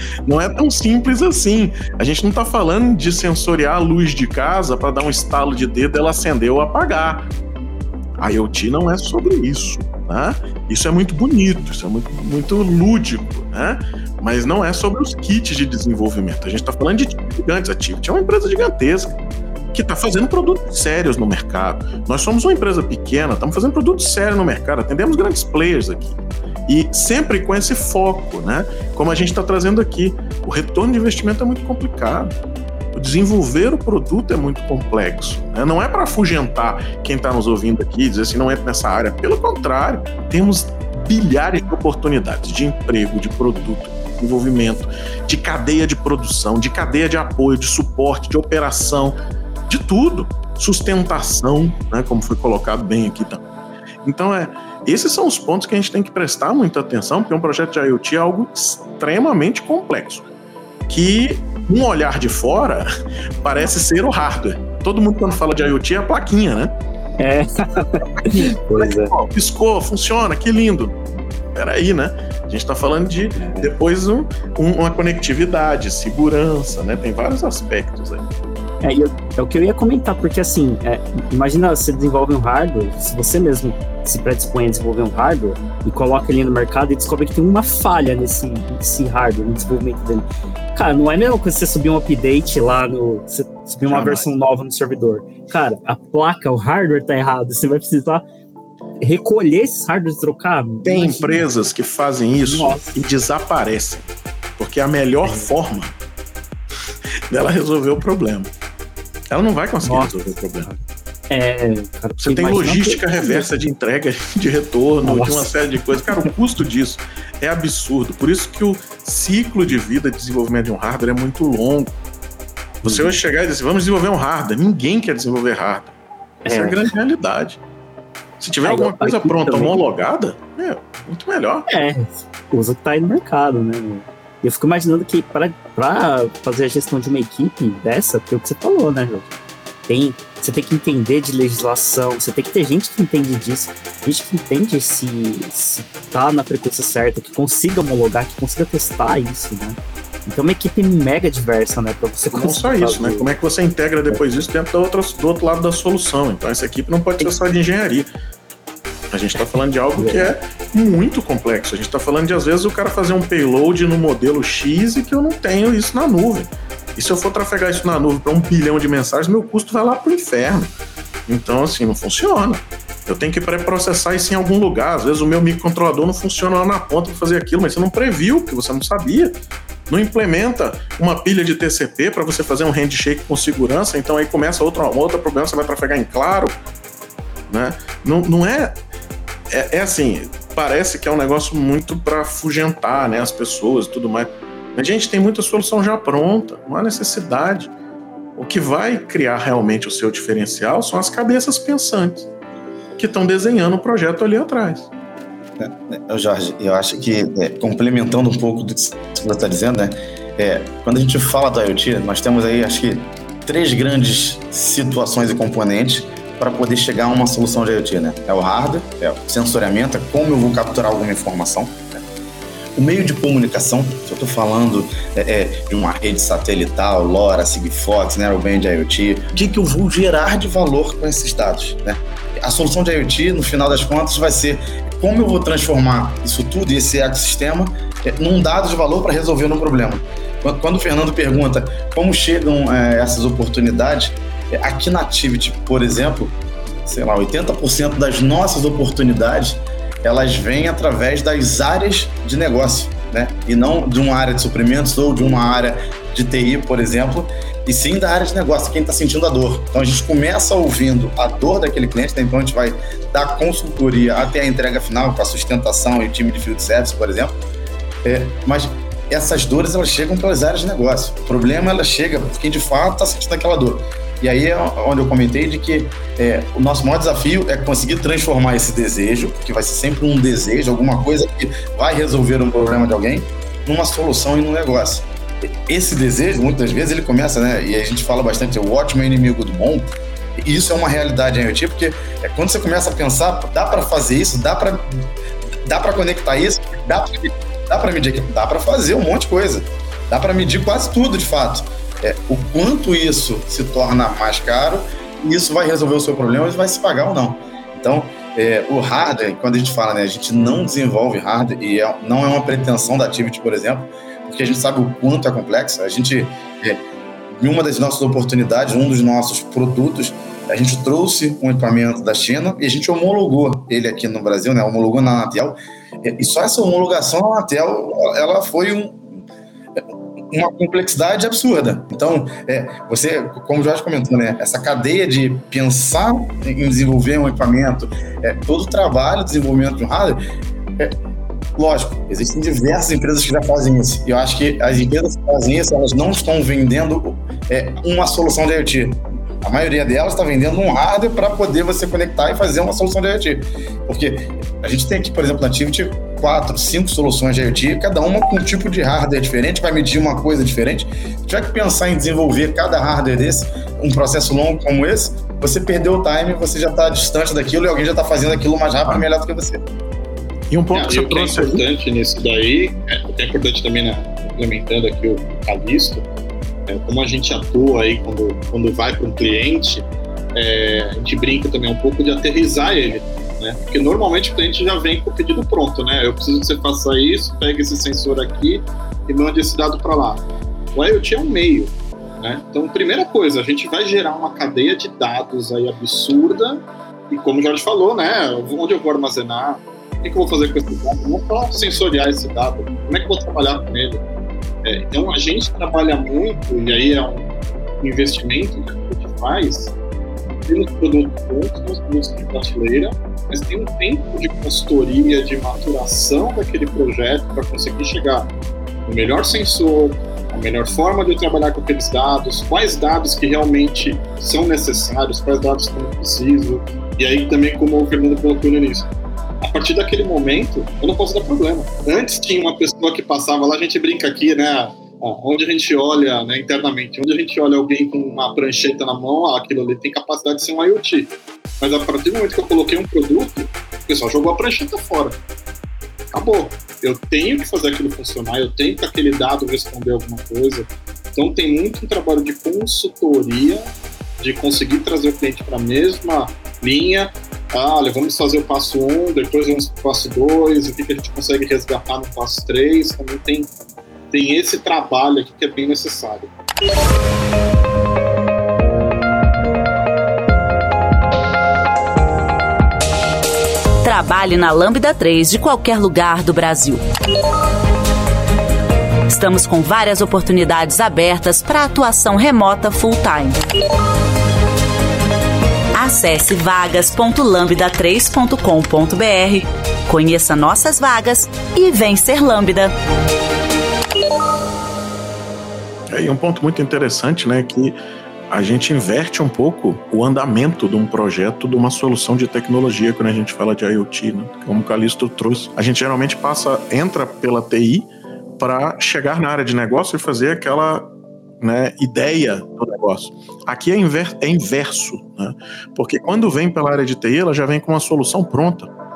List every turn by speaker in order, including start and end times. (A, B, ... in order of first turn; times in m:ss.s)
0:00.2-0:07.3 A
0:08.2-0:19.1 A
0:19.7-0:32.3 A
0:32.9-0:53.4 A
0:54.0-1:00.2 A
1:00.9-1:06.7 A
1:07.2-1:09.1 B
1:08.2-1:11.0 A
1:11.5-1:18.2 A
1:13.4-1:13.7 B
1:18.8-1:38.2 B
1:33.9-1:34.2 A
1:39.0-1:41.4 B
1:40.8-1:44.1 A
1:42.4-1:43.0 B
1:44.6-1:45.9 A
1:47.3-1:48.5 A
1:49.3-1:50.7 A
1:49.8-1:53.5 B
1:52.2-2:01.9 A
1:55.0-1:55.5 B
1:56.0-1:56.3 B
2:02.8-2:03.2 B
2:02.8-2:05.9 A
2:06.4-2:07.6 A
2:06.4-2:06.8 B
2:08.4-2:11.7 A
2:08.6-2:09.8 B
2:11.7-2:19.3 B
2:19.9-2:33.3 B
2:32.3-2:38.1 A
2:39.1-2:50.7 A
2:40.0-2:40.3 B
2:51.3-2:59.3 A
2:59.9-3:06.5 A
3:07.5-3:08.8 A
3:09.5-3:17.7 A
3:18.4-3:22.3 A
3:23.0-3:24.9 A
3:25.6-3:42.0 C
3:42.8-4:27.4 C
4:28.0-4:55.0 C
4:55.6-5:16.8 C
5:17.3-5:29.2 C
5:29.8-5:40.2 C
5:41.6-6:09.6 C
6:10.5-6:11.6 A
6:10.7-6:16.0 D
6:16.7-6:44.0 D
6:44.6-6:47.3 D
6:47.8-6:49.7 D
6:50.5-6:58.3 D
6:58.8-7:08.9 D
7:09.4-7:25.2 D
7:26.1-7:43.5 D
7:44.1-7:46.3 D
7:53.8-7:56.8 E
7:59.1-8:03.4 E
8:05.8-8:12.7 E
8:15.9-8:17.8 A
8:18.3-8:27.9 A
8:28.4-8:30.9 A
8:31.4-8:38.7 A